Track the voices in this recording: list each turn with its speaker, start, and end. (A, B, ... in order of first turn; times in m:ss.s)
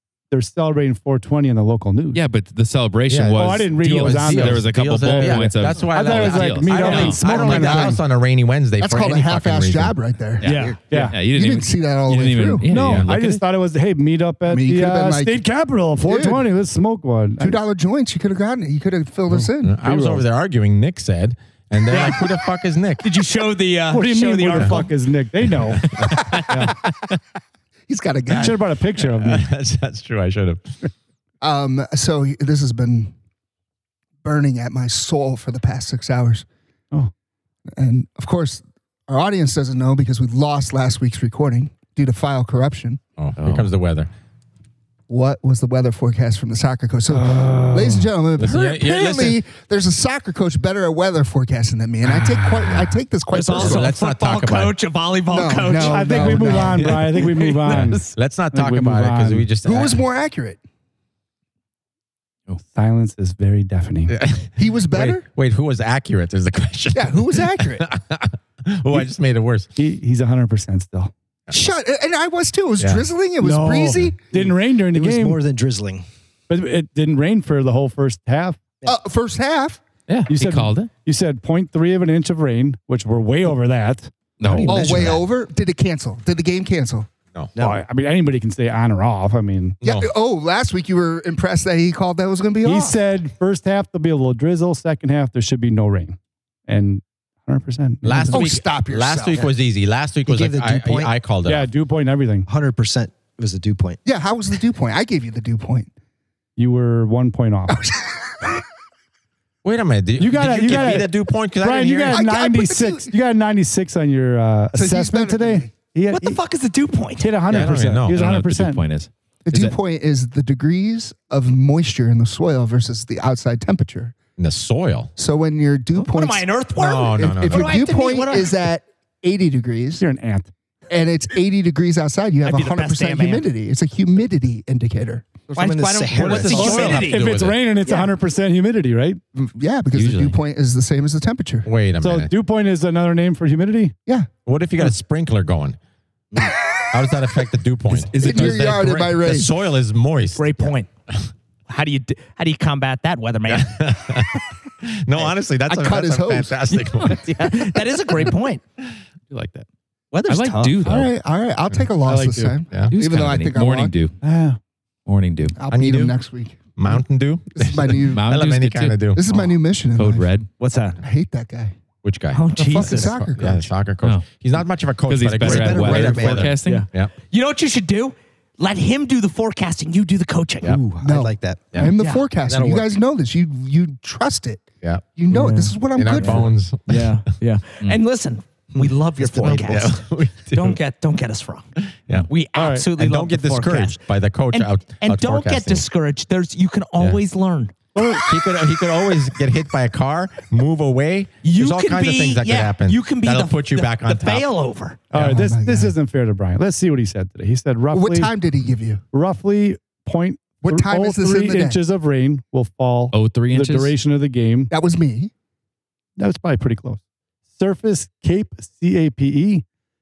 0:00.3-0:02.2 A
0:02.1-0:07.3 B
0:03.1-0:10.0 C
0:03.3-0:08.0 A
0:07.3-0:08.0 D
0:08.8-0:12.7 D
0:10.4-0:13.4 B
0:10.4-0:11.2 A
0:12.7-0:17.6 A
0:12.7-0:13.1 C
0:14.5-0:15.4 D
0:16.0-0:16.5 D
0:17.4-0:19.7 D
0:19.3-0:20.2 A
0:19.6-0:23.0 C
0:21.9-0:22.3 E
0:23.0-0:24.9 E
0:23.9-0:25.8 A
0:24.5-0:24.8 C
0:25.7-0:26.6 C
0:26.1-0:26.4 D
0:26.5-0:26.7 A
0:27.9-0:28.6 D
0:28.3-0:30.7 C
0:28.4-0:29.5 A
0:31.4-0:33.1 D
0:34.2-0:36.4 D
0:37.7-0:43.0 D
0:43.2-0:44.1 C
0:43.4-0:43.7 B
0:45.1-0:53.8 D
0:47.1-0:48.1 A
0:48.4-0:49.4 C
0:52.7-0:53.0 C
0:53.3-0:58.0 E
0:53.5-0:54.8 C
0:55.3-0:57.0 D
0:55.8-0:59.5 A
0:57.7-1:00.0 C
0:59.6-1:00.6 D
1:02.6-1:04.1 A
1:04.1-1:09.7 C
1:04.6-1:05.2 D
1:06.9-1:07.8 D
1:09.7-1:11.1 A
1:11.5-1:14.2 D
1:12.8-1:13.0 C
1:13.4-1:15.4 A
1:14.3-1:16.0 F
1:16.5-1:18.6 A
1:18.8-1:19.8 D
1:20.1-1:20.9 B
1:20.3-1:25.2 A
1:24.4-1:25.2 B
1:24.6-1:27.1 D
1:27.5-1:27.8 F
1:27.6-1:29.8 A
1:29.8-1:30.1 C
1:29.8-1:33.0 D
1:32.6-1:38.5 A
1:38.0-1:41.7 C
1:38.3-1:39.5 D
1:40.2-1:41.1 F
1:41.4-1:42.5 A
1:42.4-1:44.0 F
1:44.0-1:45.9 D
1:46.6-1:47.8 A
1:47.7-1:48.5 D
1:49.6-1:52.2 C
1:50.2-1:56.4 A
1:52.1-1:53.1 D
1:54.7-1:55.7 D
1:56.1-1:57.5 E
1:57.2-1:58.8 A
1:57.5-1:58.2 C
1:58.0-1:59.7 B
1:59.4-2:04.1 D
2:04.4-2:05.1 C
2:05.2-2:06.5 D
2:05.9-2:08.5 E
2:06.8-2:07.7 C
2:07.1-2:10.0 D
2:10.0-2:10.5 A
2:10.9-2:15.3 D
2:12.4-2:13.5 E
2:15.5-2:17.3 E
2:15.5-2:17.2 F
2:16.2-2:17.6 C
2:16.5-2:19.2 A
2:19.3-2:21.7 D
2:20.0-2:20.3 B
2:21.6-2:22.3 C
2:22.0-2:23.9 A
2:24.4-2:25.8 C
2:26.9-2:31.2 C
2:27.9-2:29.0 B
2:28.1-2:29.5 D
2:30.4-2:30.9 E
2:31.7-2:33.9 E
2:33.5-2:37.5 C
2:35.7-2:36.8 D
2:37.2-2:38.6 E
2:39.3-2:39.6 B
2:40.1-2:40.9 E
2:40.2-2:41.1 B
2:40.8-2:43.9 D
2:42.0-2:42.6 A
2:42.9-2:44.1 B
2:44.2-2:44.6 A
2:45.0-2:45.6 B
2:45.6-2:46.7 D
2:45.7-2:46.2 C
2:46.8-2:49.2 C
2:47.5-2:48.3 D
2:48.0-2:49.0 B
2:49.1-2:50.3 D
2:49.9-2:50.5 B
2:50.6-2:51.0 E
2:51.0-2:51.7 D
2:52.0-2:57.1 C
2:52.3-2:53.2 E
2:52.6-2:53.7 D
2:54.0-2:54.3 B
2:55.1-2:56.9 B
2:55.4-2:56.5 F
2:56.6-3:00.8 E
3:00.6-3:02.9 F
3:01.0-3:04.6 D
3:02.0-3:02.3 E
3:04.8-3:05.2 C
3:05.2-3:06.5 D
3:05.9-3:07.2 C
3:06.9-3:11.7 E
3:09.2-3:09.8 F
3:09.4-3:10.8 C
3:12.3-3:17.7 E
3:12.6-3:12.8 A
3:13.0-3:15.8 C
3:17.9-3:18.3 A
3:18.0-3:24.5 C
3:21.4-3:25.0 E
3:25.1-3:26.0 D
3:25.1-3:28.3 A
3:27.9-3:29.0 D
3:29.1-3:34.7 A
3:30.6-3:31.8 D
3:33.1-3:33.9 B
3:34.7-3:35.3 D
3:36.2-3:37.0 A
3:37.5-3:39.6 A